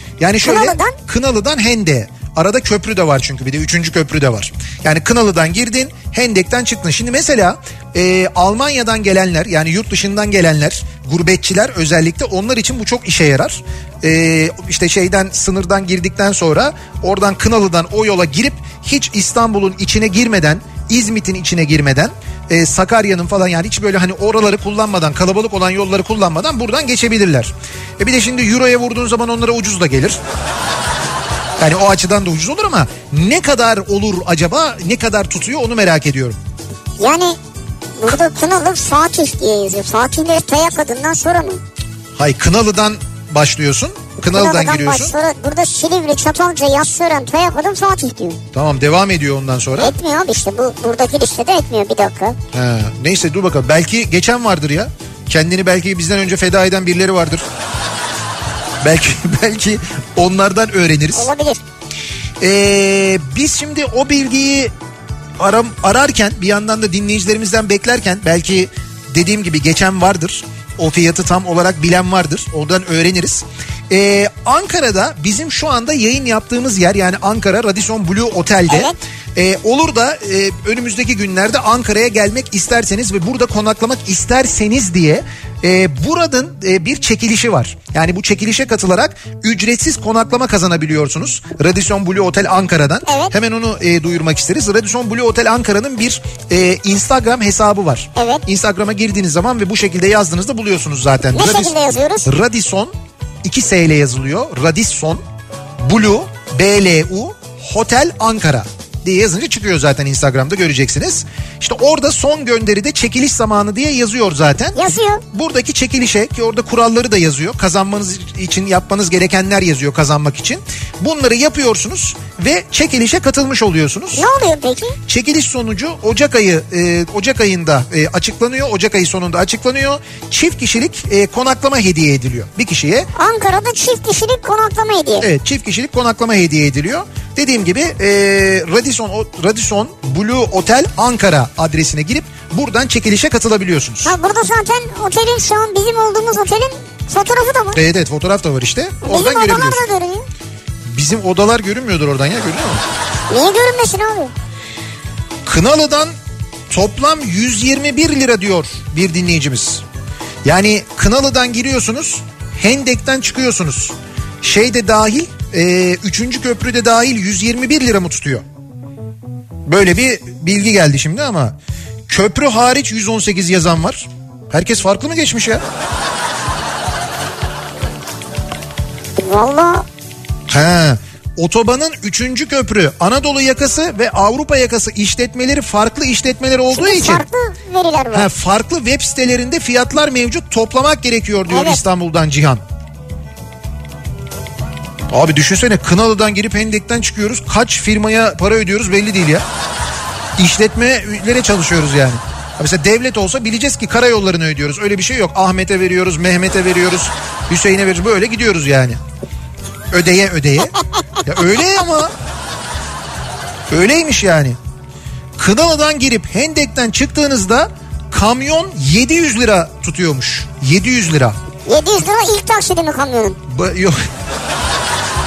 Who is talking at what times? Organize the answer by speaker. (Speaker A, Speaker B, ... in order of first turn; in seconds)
Speaker A: 0.2-30.2, 31.6-36.4, 42.2-45.1, 48.5-49.9, 52.5-57.5, 58.8-61.3, 62.4-64.7, 65.4-101.7, 102.3-102.9, 103.4-105.2, 105.8-114.8, 115.3-124.3, 125.1-133.1, 135.2-144.1, 147.7-149.8, 150.9-152.8, 155.4-156.1, 156.7-159.8, 160.4-168.4, 169.7-171.6, 172.1-175.6, 180.5-187.2, 188.1-192.6, 195.1-199.4, 200.4-209.0, 209.9-212.1, 213.7-214.6, 215.4-221.4, 223.5-224.0
Speaker B: 0.4-1.0, 37.0-37.4, 38.0-41.6, 44.2-48.4, 49.8-52.4, 61.1-61.6, 78.7-79.0, 93.1-93.3, 98.2-98.5, 101.3-102.3, 114.7-115.2, 124.1-125.0, 133.1-135.3, 144.0-147.8, 149.0-150.3, 153.3-154.3, 179.2-179.9, 186.7-188.3, 191.5-191.8, 221.7-223.4